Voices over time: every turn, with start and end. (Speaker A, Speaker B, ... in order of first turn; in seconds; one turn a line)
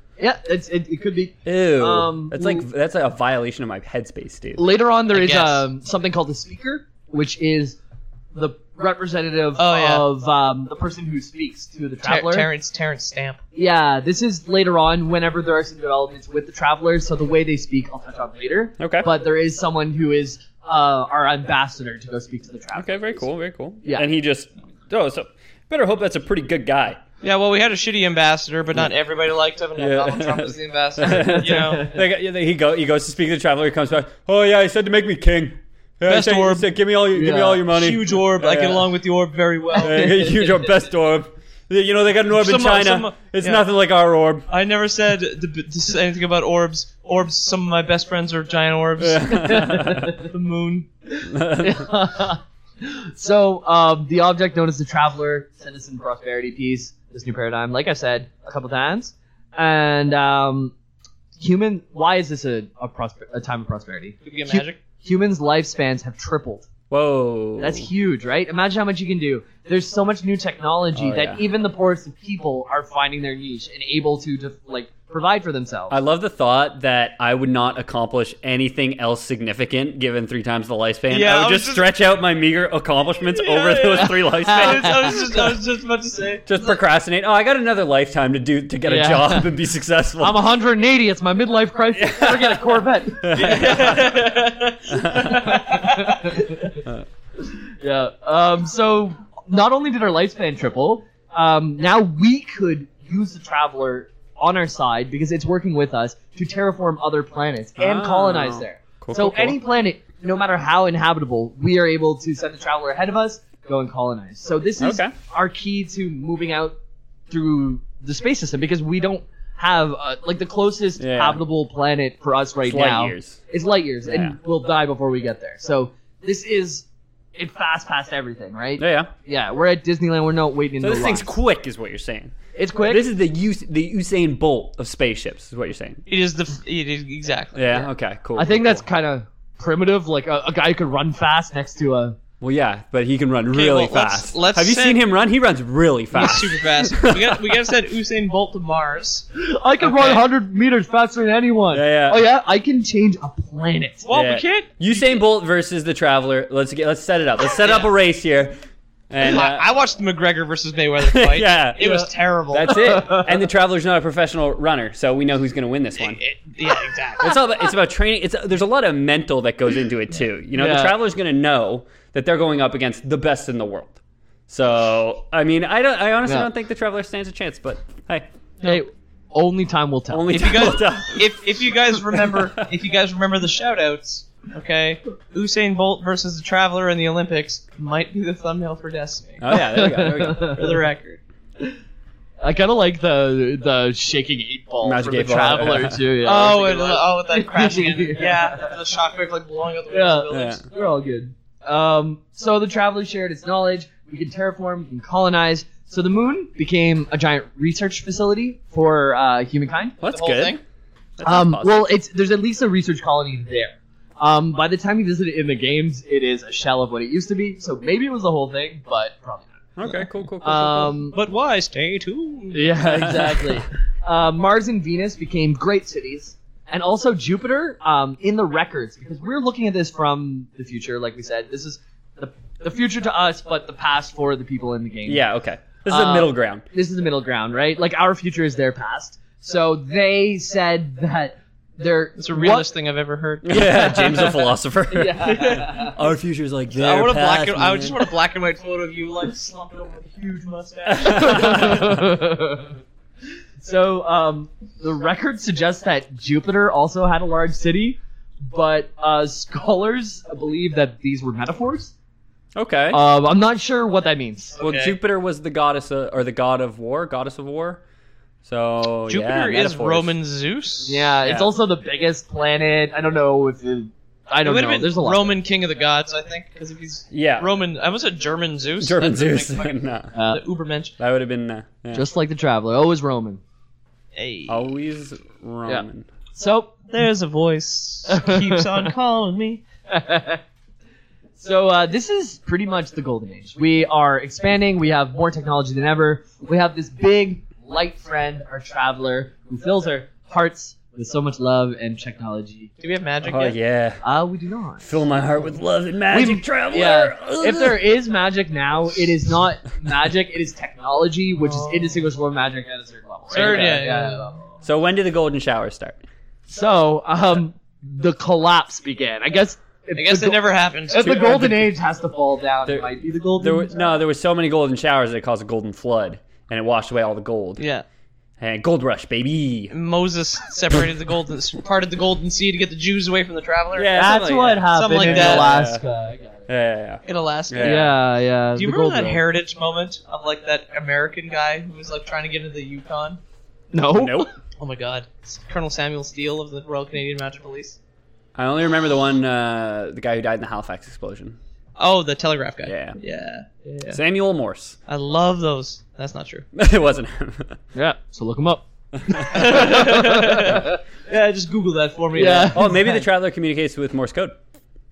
Speaker A: 0.2-2.6
Speaker B: 1.4-4.7
Speaker A: 4.6-7.8
Speaker C: 5.1-5.7
Speaker A: 8.3-12.5
Speaker C: 9.6-10.1
Speaker C: 12.0-13.4
Speaker A: 13.5-23.3
Speaker B: 18.8-19.1
Speaker B: 22.8-27.0
Speaker A: 23.8-24.1
Speaker C: 27.2-31.9
Speaker B: 29.8-38.9
Speaker A: 31.0-32.0
Speaker C: 36.1-36.7
Speaker A: 37.1-37.6
Speaker C: 37.7-40.5
Speaker B: 39.8-44.5
Speaker A: 39.8-40.5
Speaker C: 42.3-43.6
Speaker C: 44.5-50.9
Speaker B: 49.0-50.1
Speaker A: 49.4-50.2
Speaker A: 51.1-60.7
Speaker B: 51.3-51.9
Speaker A: 61.4-66.7
Speaker C: 64.2-64.8
Speaker B: 66.9-67.9
Speaker A: 67.6-76.0
Speaker B: 71.0-71.4
Speaker B: 75.9-85.4
Speaker C: 81.1-81.9
Speaker C: 83.3-86.6
Speaker A: 84.4-85.5
Speaker B: 86.5-90.4
Speaker A: 88.9-89.5
Speaker A: 90.2-94.2
Speaker B: 91.9-94.2
Speaker C: 93.3-96.3
Speaker B: 94.9-95.5
Speaker A: 95.2-96.8
Speaker A: 97.4-116.8
Speaker B: 107.8-109.6
Speaker B: 114.8-115.2
Speaker A: 117.3-131.3
Speaker B: 121.0-121.4
Speaker B: 122.7-123.4
Speaker B: 124.0-124.4
Speaker B: 128.8-129.1
Speaker B: 130.8-132.3
Speaker A: 132.6-133.1
Speaker B: 132.9-136.0
Speaker C: 136.1-137.9
Speaker B: 137.6-138.8
Speaker A: 138.4-142.2
Speaker B: 142.4-147.4
Speaker C: 143.5-145.0
Speaker C: 146.1-149.2
Speaker A: 149.3-154.1
Speaker B: 149.8-150.2
Speaker B: 151.7-152.3
Speaker C: 154.1-155.2
Speaker B: 154.1-158.6
Speaker C: 157.5-157.9
Speaker B: 159.1-159.7
Speaker C: 159.2-163.1
Speaker B: 161.0-166.2
Speaker A: 162.7-163.4
Speaker C: 166.0-167.4
Speaker B: 167.2-174.0
Speaker A: 170.6-170.9
Speaker B: 174.5-178.3
Speaker A: 178.6-180.8
Speaker B: 180.1-181.3
Speaker C: 180.3-191.2
Speaker B: 182.2-182.5
Speaker B: 189.4-190.6
Speaker A: 189.5-190.8
Speaker A: 192.4-198.7
Speaker B: 194.8-196.1
Speaker C: 196.2-200.6
Speaker A: 199.9-210.0
Speaker B: 200.3-200.6
Speaker B: 210.0-210.6
Speaker C: 210.0-210.6
Speaker B: 211.2-211.9
Speaker A: 211.2-219.6
Speaker B: 219.8-221.0
Speaker A: 220.4-221.2
Speaker C: 221.1-223.3
Speaker A: 222.5-235.2
Speaker B: 222.9-223.6
Speaker B: 235.1-236.7
Speaker A: 235.9-242.7
Speaker C: 242.2-244.1
Speaker B: 243.4-248.0
Speaker A: 243.5-246.0
Speaker C: 245.3-245.8
Speaker C: 246.7-251.9
Speaker B: 250.9-252.0
Speaker A: 251.0-252.8
Speaker A: 253.6-261.9
Speaker B: 262.6-263.0
Speaker A: 262.9-264.6
Speaker C: 264.6-264.9
Speaker B: 264.6-267.8
Speaker B: 268.4-270.1
Speaker C: 269.1-271.1
Speaker A: 270.9-275.4
Speaker B: 271.2-271.5
Speaker C: 274.4-280.9
Speaker B: 277.1-277.5
Speaker B: 278.8-280.1
Speaker A: 280.1-280.4
Speaker B: 281.0-282.1
Speaker A: 281.9-283.4
Speaker C: 284.1-284.6
Speaker B: 284.5-286.1
Speaker A: 285.7-286.8
Speaker C: 286.9-289.6
Speaker A: 288.1-288.8
Speaker A: 289.9-290.4
Speaker A: 291.4-302.7
Speaker C: 302.8-303.6
Speaker B: 303.2-304.0
Speaker A: 304.0-304.9
Speaker B: 304.8-307.9
Speaker A: 306.1-314.5
Speaker C: 311.4-312.1
Speaker B: 313.3-313.8
Speaker C: 313.3-314.4
Speaker B: 314.6-316.0
Speaker A: 316.5-323.8
Speaker C: 319.9-321.5
Speaker B: 321.0-321.7
Speaker B: 322.7-327.6
Speaker C: 327.6-327.9
Speaker B: 328.4-329.7
Speaker C: 329.7-335.6
Speaker B: 333.8-335.8
Speaker A: 333.9-336.5
Speaker B: 336.5-337.9
Speaker C: 337.1-337.9
Speaker A: 337.6-339.2
Speaker C: 338.6-343.2
Speaker A: 343.7-344.3
Speaker B: 343.9-344.3
Speaker C: 344.6-347.8
Speaker B: 348.4-351.4
Speaker C: 351.8-354.0
Speaker B: 352.6-353.0
Speaker B: 353.9-354.8
Speaker C: 354.9-356.5
Speaker B: 356.5-357.6
Speaker A: 357.8-360.8
Speaker C: 359.3-362.7
Speaker A: 362.1-363.0
Speaker B: 362.5-364.4